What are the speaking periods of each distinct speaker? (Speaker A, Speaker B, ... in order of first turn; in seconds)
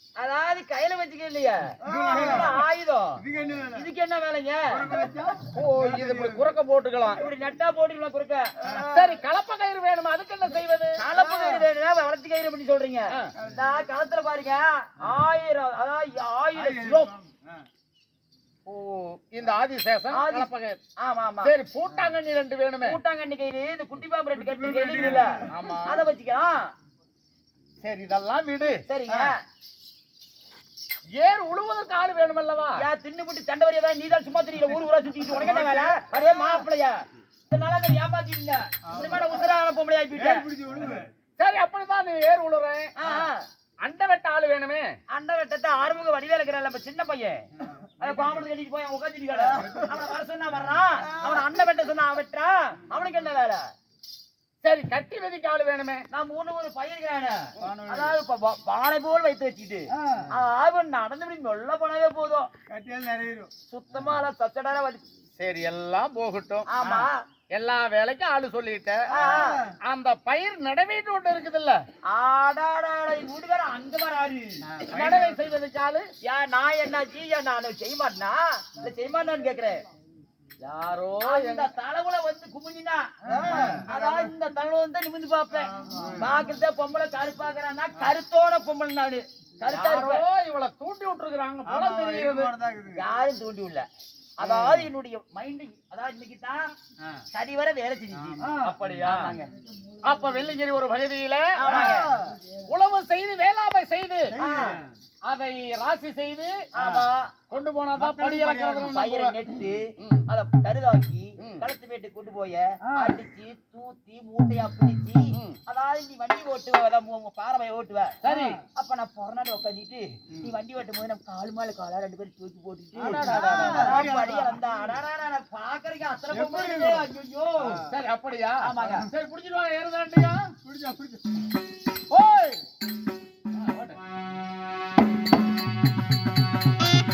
Speaker A: 0.2-5.0, 7.1-8.5, 10.9-17.1, 20.1-20.5, 21.0-21.5, 22.8-26.6, 28.9-29.4, 32.8-40.4, 43.0-43.5, 45.1-47.4, 48.0-53.7, 56.1-62.5, 63.7-65.0, 66.7-67.2, 69.1-69.7, 72.1-74.8, 76.2-79.8, 81.2-90.2, 92.9-93.8, 94.4-96.7, 97.3-98.5, 99.0-99.5, 101.6-102.1, 104.4-104.8, 106.7-107.3, 108.9-118.2, 118.7-127.9, 128.6-129.1
Speaker B: 1.8-2.6, 3.2-3.8, 4.7-6.5, 8.6-9.0, 11.2-11.6, 16.5-17.5, 24.4-25.4, 35.3-36.5, 38.9-39.2, 40.1-41.1, 49.4-49.8, 51.1-51.4, 57.6-58.1, 60.0-60.3, 62.7-63.5, 69.2-69.7, 74.7-75.3, 83.2-84.3, 85.7-86.3, 91.7-93.0, 98.2-98.7, 101.7-102.4, 104.3-104.9, 108.0-108.9, 123.3-124.5, 126.3-127.1, 130.6-131.4
Speaker C: 5.5-7.2, 8.8-11.0, 18.6-20.8, 21.4-22.9, 25.5-26.1, 27.8-28.8, 31.1-32.8, 41.4-42.9, 43.8-44.9, 54.6-56.0, 65.4-66.7, 67.5-71.8, 74.9-76.1, 80.6-81.7, 89.7-92.5, 94.4-94.9, 98.5-99.3, 100.0-102.0, 102.7-104.4, 105.2-106.7, 107.5-109.3, 110.0-110.2, 115.3-115.6, 118.2-118.6, 123.0-124.1, 127.8-130.5, 132.1-132.6, 133.5-134.0